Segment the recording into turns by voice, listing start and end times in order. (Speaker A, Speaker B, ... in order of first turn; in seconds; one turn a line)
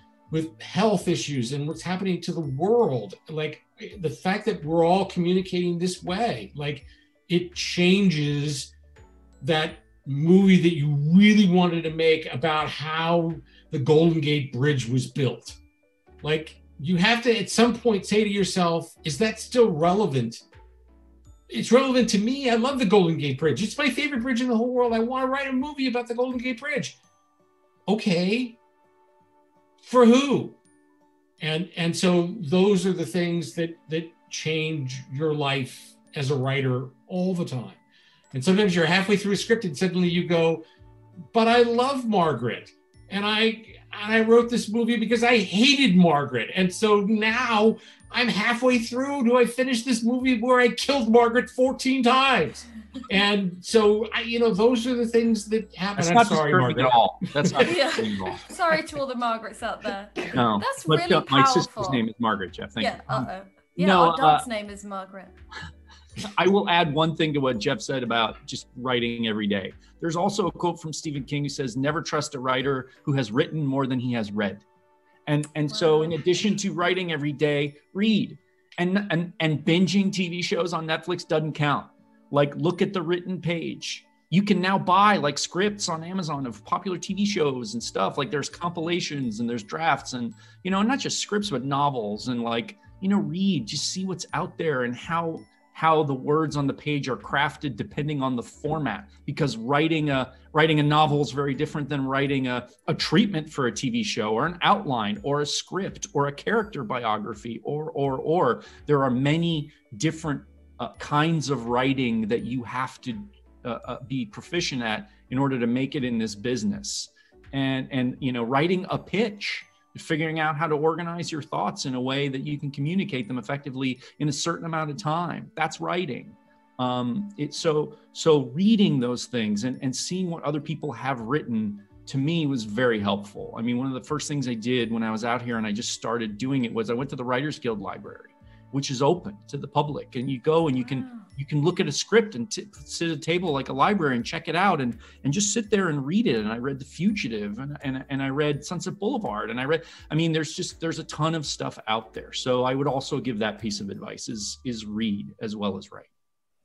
Speaker A: 0.3-8.7
Speaker A: 9.4-15.6
Speaker A: 16.2-20.4
Speaker A: 21.5-27.0
Speaker A: 27.9-28.6
Speaker A: 29.8-30.6
Speaker A: 31.4-37.8
Speaker A: 38.3-40.6
Speaker A: 41.3-57.7
Speaker B: 56.0-58.4
Speaker C: 57.6-62.0
Speaker B: 60.3-64.5
Speaker C: 62.8-65.3
Speaker B: 66.2-74.7
Speaker B: 75.3-156.1
Speaker C: 75.7-76.2